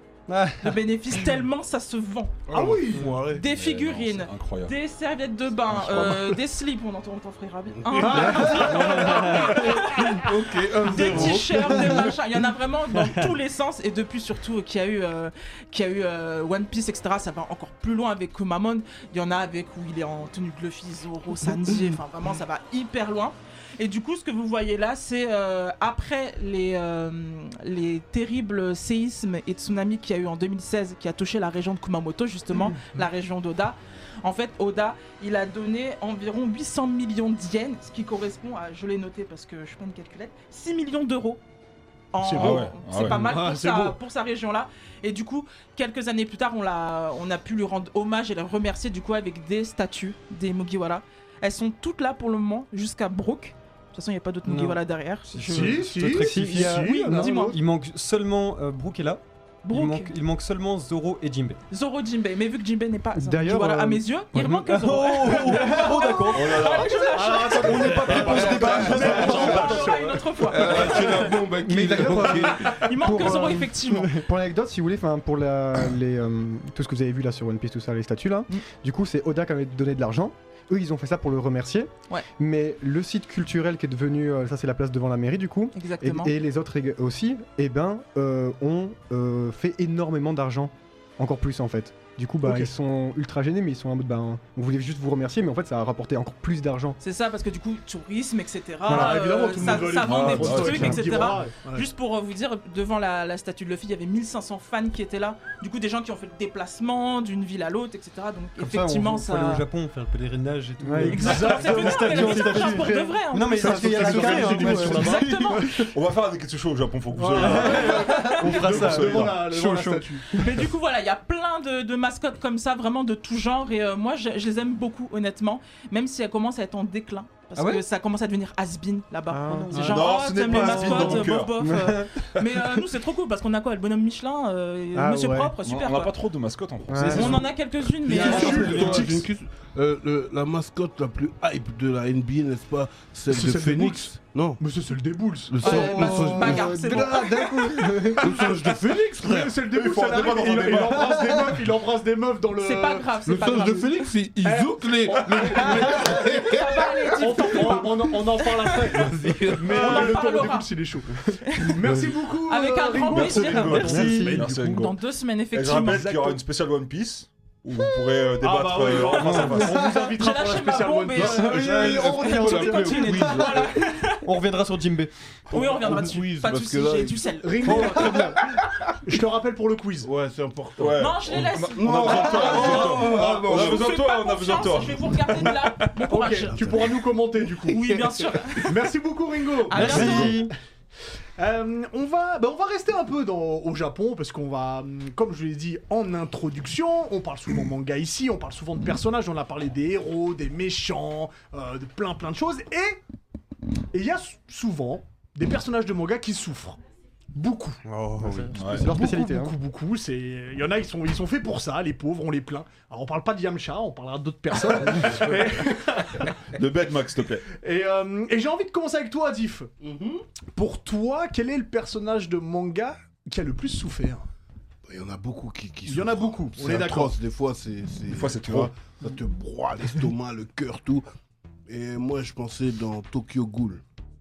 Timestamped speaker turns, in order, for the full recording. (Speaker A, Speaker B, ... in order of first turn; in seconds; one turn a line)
Speaker A: 0.3-0.8
Speaker B: 0.6-2.5
Speaker C: 2.5-3.4
Speaker D: 2.5-3.2
Speaker B: 3.2-41.4
Speaker E: 3.4-4.8
Speaker E: 5.7-6.2
Speaker D: 5.7-6.3
Speaker C: 7.8-8.7
Speaker D: 8.0-9.7
Speaker A: 8.2-9.7
Speaker C: 10.1-12.1
Speaker D: 10.9-12.1
Speaker B: 42.1-55.9
Speaker D: 42.2-44.0
Speaker E: 42.3-43.3
Speaker A: 54.5-61.6
Speaker D: 55.4-57.6
Speaker F: 56.5-57.0
Speaker B: 57.1-57.6
Speaker B: 59.6-60.1
Speaker B: 61.7-71.4
Speaker F: 63.1-64.0
Speaker A: 64.3-66.8
Speaker E: 66.3-70.2
Speaker D: 66.7-71.2
Speaker A: 67.6-69.7
Speaker C: 68.3-68.8
Speaker C: 70.4-72.8
Speaker F: 71.6-97.0
Speaker D: 71.9-72.8
Speaker B: 72.7-74.2
Speaker B: 85.7-86.3
Speaker D: 92.4-92.7
Speaker B: 97.0-109.6
Speaker D: 98.8-101.9
Speaker F: 98.9-99.2
Speaker E: 99.7-101.3
Speaker F: 100.7-101.0
Speaker A: 108.6-115.6
Speaker F: 110.8-113.2
Speaker D: 111.0-115.8
Speaker B: 111.1-115.7
Speaker F: 114.1-115.8
Speaker E: 115.8-119.4
Speaker D: 117.1-120.4
Speaker A: 117.4-120.1
Speaker B: 120.3-136.2
Speaker A: 127.5-127.8
Speaker F: 129.3-132.1
Speaker E: 129.7-131.8
Speaker F: 134.9-135.5
Speaker E: 135.6-137.5
Speaker F: 136.9-137.5
Speaker B: 137.0-138.6
Speaker D: 138.0-139.2
Speaker A: 138.1-139.1
Speaker C: 138.1-144.6
Speaker E: 138.2-139.2
Speaker D: 143.3-146.1
Speaker C: 145.5-147.3
Speaker B: 145.6-147.5
Speaker F: 145.6-148.6
Speaker C: 148.1-149.5
Speaker D: 148.3-148.6
Speaker D: 149.2-153.8
Speaker E: 149.7-151.4
Speaker F: 150.9-151.4
Speaker B: 152.6-154.1
Speaker C: 153.2-157.8
Speaker D: 154.4-164.8
Speaker B: 156.0-158.8
Speaker C: 158.9-160.0
Speaker B: 159.7-160.7
Speaker B: 161.4-161.8
Speaker B: 162.4-163.8
Speaker E: 163.1-165.0
Speaker A: 163.6-164.3
Speaker F: 163.8-164.4
Speaker B: 164.6-166.4
Speaker E: 165.5-170.0
Speaker D: 168.4-173.2
Speaker B: 169.2-171.6
Speaker A: 169.2-169.8
Speaker C: 171.2-173.9
Speaker A: 171.3-173.5
Speaker B: 172.2-174.3
Speaker A: 174.2-175.1
Speaker B: 175.5-178.0
Speaker C: 175.5-178.4
Speaker D: 175.8-176.1
Speaker D: 177.4-178.5
Speaker D: 179.0-180.1
Speaker C: 180.0-184.0
Speaker E: 180.8-186.0
Speaker B: 180.9-186.9
Speaker D: 182.7-183.7
Speaker D: 186.0-187.9
Speaker B: 187.6-188.9
Speaker D: 188.6-190.3
Speaker B: 189.7-190.4
Speaker E: 189.7-190.3
Speaker A: 189.7-190.5
Speaker D: 191.4-203.0
Speaker D: 203.9-206.8
Speaker D: 207.3-207.8
Speaker A: 207.8-208.6
Speaker F: 208.2-209.5
Speaker E: 208.5-208.9
Speaker D: 208.7-216.3
Speaker E: 216.5-217.4
Speaker D: 217.6-219.7
Speaker C: 219.8-220.2
Speaker D: 220.5-224.3
Speaker C: 224.8-231.0
Speaker D: 225.8-227.2
Speaker E: 228.1-228.7
Speaker C: 231.7-233.8